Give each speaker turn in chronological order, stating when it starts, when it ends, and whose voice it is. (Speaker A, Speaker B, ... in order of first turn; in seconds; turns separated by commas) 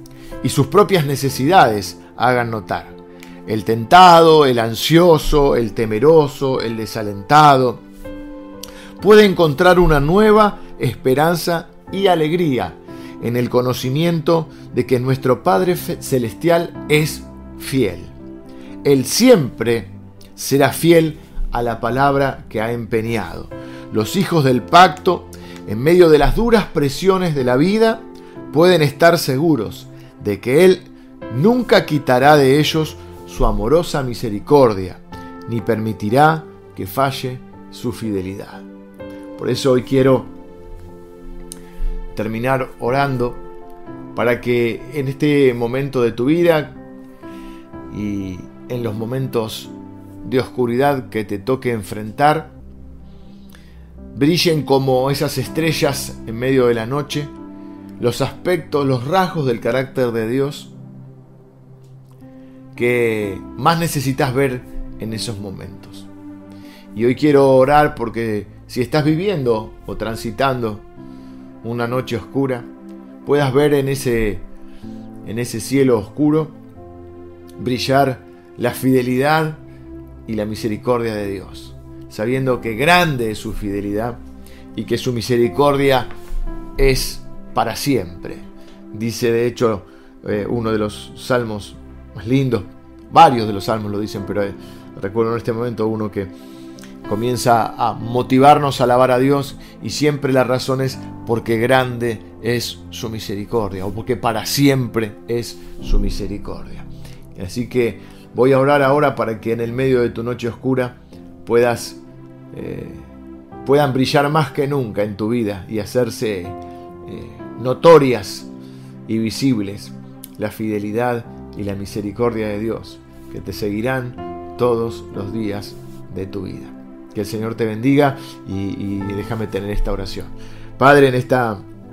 Speaker A: 0.4-2.9, Speaker A: 3.5-7.8, Speaker A: 9.0-18.1, Speaker A: 18.8-38.6, Speaker A: 39.4-40.3, Speaker A: 42.1-43.4, Speaker A: 44.1-46.8, Speaker A: 47.9-52.5, Speaker A: 54.1-57.3, Speaker A: 58.0-60.7, Speaker A: 62.8-66.1, Speaker A: 66.9-70.8, Speaker A: 71.6-72.7, Speaker A: 73.2-74.4, Speaker A: 75.2-76.5, Speaker A: 77.6-79.6, Speaker A: 80.3-84.2, Speaker A: 84.7-86.1, Speaker A: 86.8-96.3, Speaker A: 97.0-112.0, Speaker A: 112.5-113.1, Speaker A: 113.6-118.5, Speaker A: 119.1-131.6